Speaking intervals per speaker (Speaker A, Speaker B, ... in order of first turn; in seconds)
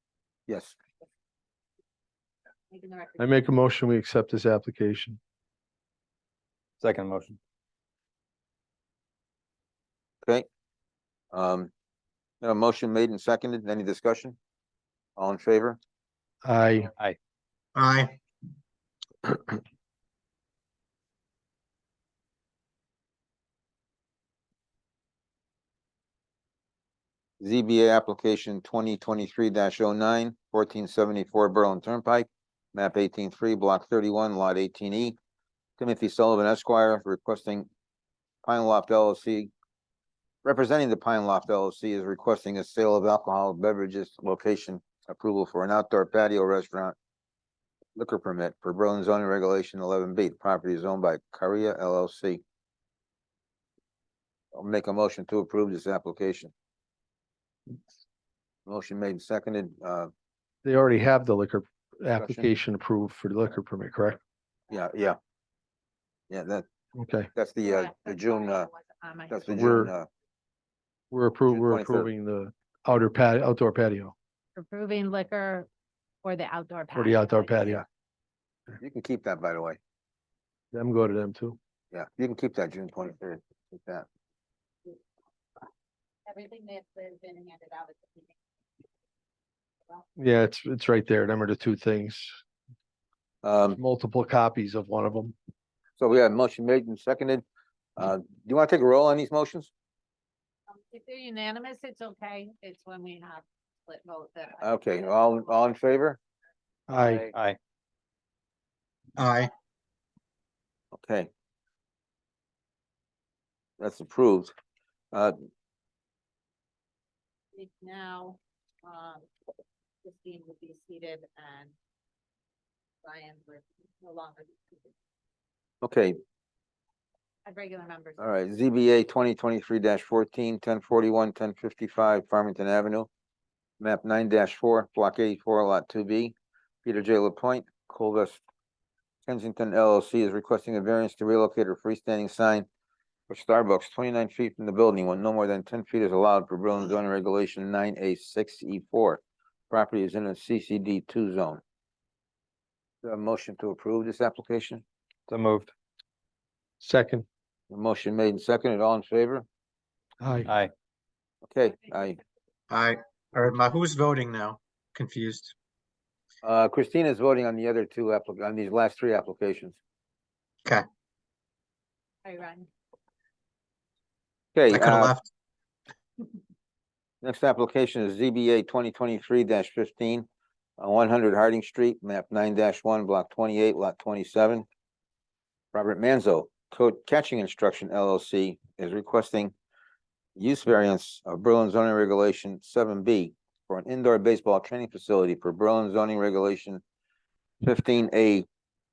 Speaker A: 0.5-0.8, 11.3-11.7, 12.4-14.4, 15.2-15.8, 27.4-35.1, 35.8-37.7, 38.4-39.5, 40.4-46.9, 48.0-52.4, 54.5-56.5, 58.6-60.1, 62.2-62.5, 64.7-65.2, 66.3-66.6, 67.3-68.7, 69.3-70.1, 71.5-72.1, 78.8-79.8, 81.9-84.1, 93.4-93.8, 96.0-97.4, 98.0-99.7, 104.6-106.2, 110.9-111.3, 113.8-114.5, 125.8-126.2, 128.2-133.1, 133.8-138.4, 139.2-142.7, 143.3-151.6, 153.0-154.8, 157.7-159.4, 161.4-162.2, 166.4-169.8, 174.5-175.2, 177.2-180.3, 180.8-184.7, 185.7-189.5, 190.3-196.8, 197.6-198.4
Speaker B: 2.7-3.4, 67.6-69.5, 74.5-75.7, 76.2-77.8, 86.2-88.4, 100.7-105.2, 117.5-119.2, 120.0-121.7, 123.0-124.9, 127.5-128.2, 172.2-172.7
Speaker C: 3.2-5.2, 16.4-16.9, 60.6-64.2, 67.0-67.3, 69.5-69.9, 71.1-74.1, 76.9-77.8, 80.7-81.6, 90.2-92.4, 93.8-95.3, 106.9-107.3, 156.8-157.2, 160.2-160.5
Speaker D: 6.8-7.4, 107.0-107.6, 155.3-155.7, 160.4-160.7
Speaker E: 17.7-18.2, 109.2-109.5, 162.7-165.5, 174.7-175.3